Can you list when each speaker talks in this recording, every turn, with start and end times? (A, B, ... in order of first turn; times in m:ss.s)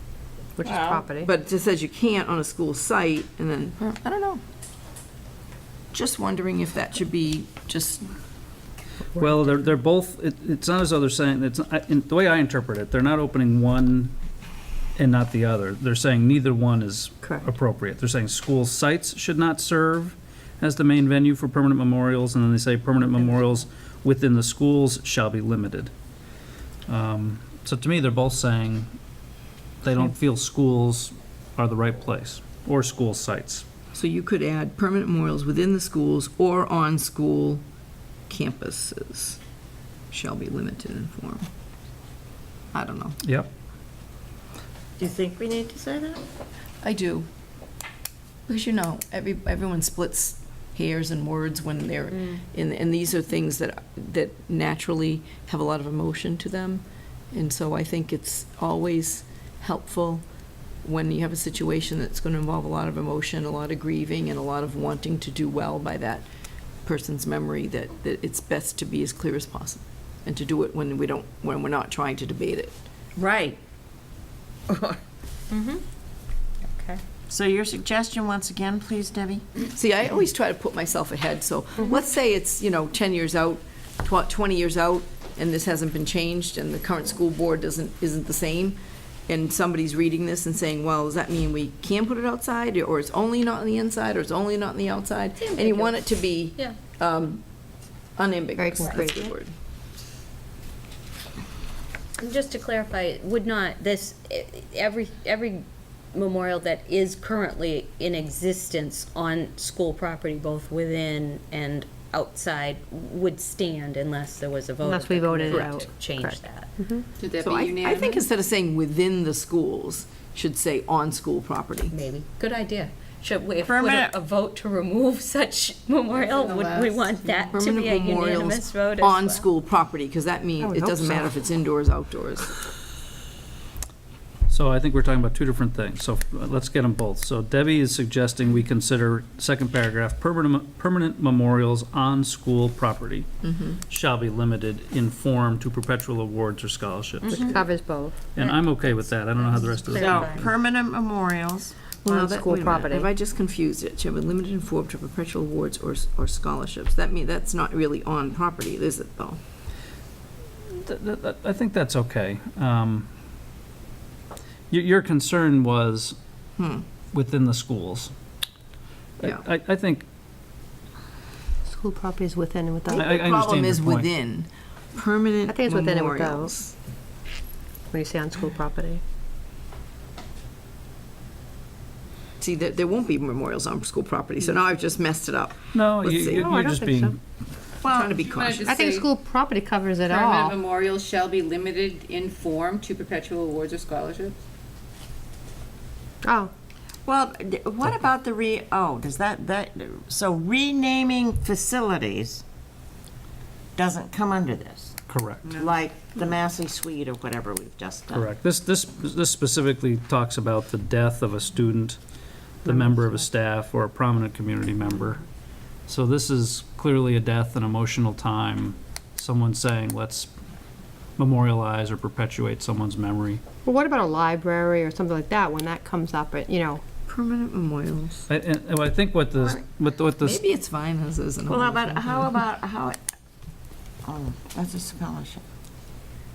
0:00.6-0:01.3 A
0:00.6-0:01.0 B
0:01.2-0:04.4 C
0:05.9-0:08.0 C
0:09.1-0:09.7 A
0:09.2-0:14.1 D
0:15.0-0:25.9 D
0:26.9-0:28.9 D
0:29.8-0:33.6 D
0:33.9-0:37.6 C
0:38.3-0:39.4 C
0:40.1-0:41.5 C
0:42.7-0:43.2 C
0:43.2-0:43.5 D
0:45.0-0:46.2 B
0:46.8-0:47.2 C
0:48.5-1:00.2 C
1:00.8-1:06.3 C
1:06.8-1:12.7 C
1:13.2-1:13.6 B
1:14.7-1:15.0 B
1:15.5-1:15.8 A
1:17.3-1:19.4 B
1:19.7-1:37.4 C
1:35.4-1:36.0 E
1:38.2-1:39.5 C
1:38.6-1:39.2 A
1:42.2-1:56.7 E
1:54.8-1:57.0 A
1:57.2-1:58.2 F
1:57.4-2:02.0 C
2:01.9-2:09.4 E
2:03.6-2:04.2 B
2:06.1-2:07.6 F
2:07.5-2:12.5 C
2:10.6-2:11.3 A
2:14.5-2:23.3 D
2:23.4-2:23.8 C
2:23.9-2:27.4 D
2:27.2-2:27.8 E
2:27.3-2:28.2 A
2:28.3-2:30.4 D
2:28.4-2:30.4 E
2:29.8-2:31.7 B
2:32.0-2:39.4 C
2:32.1-2:33.1 A
2:40.8-2:43.1 D
2:44.7-2:46.2 D
2:46.6-2:46.8 C
2:47.1-2:48.1 D
2:49.2-2:49.5 C
2:49.2-2:50.0 D
2:51.7-2:53.2 A
2:52.9-2:56.7 C
2:52.9-2:54.1 D
2:55.4-2:56.5 A
2:57.9-2:59.0 A
3:02.4-3:06.5 C
3:05.7-3:07.2 D
3:06.4-3:07.1 A
3:07.8-3:08.2 B
3:07.8-3:08.8 C
3:08.2-3:09.1 F
3:08.6-3:10.6 A
3:10.0-3:14.4 F
3:16.2-3:16.5 A
3:17.0-3:22.4 B
3:23.8-3:25.0 B
3:25.1-3:25.4 D
3:25.5-3:28.3 B
3:28.1-3:32.0 D
3:32.6-3:35.2 D
3:32.6-3:33.2 A
3:35.9-3:40.3 D
3:41.2-3:43.4 D
3:43.6-3:46.8 A
3:47.1-3:48.3 C
3:48.3-3:50.4 D
3:50.2-3:52.4 C
3:51.4-3:53.0 B
3:54.0-3:55.4 B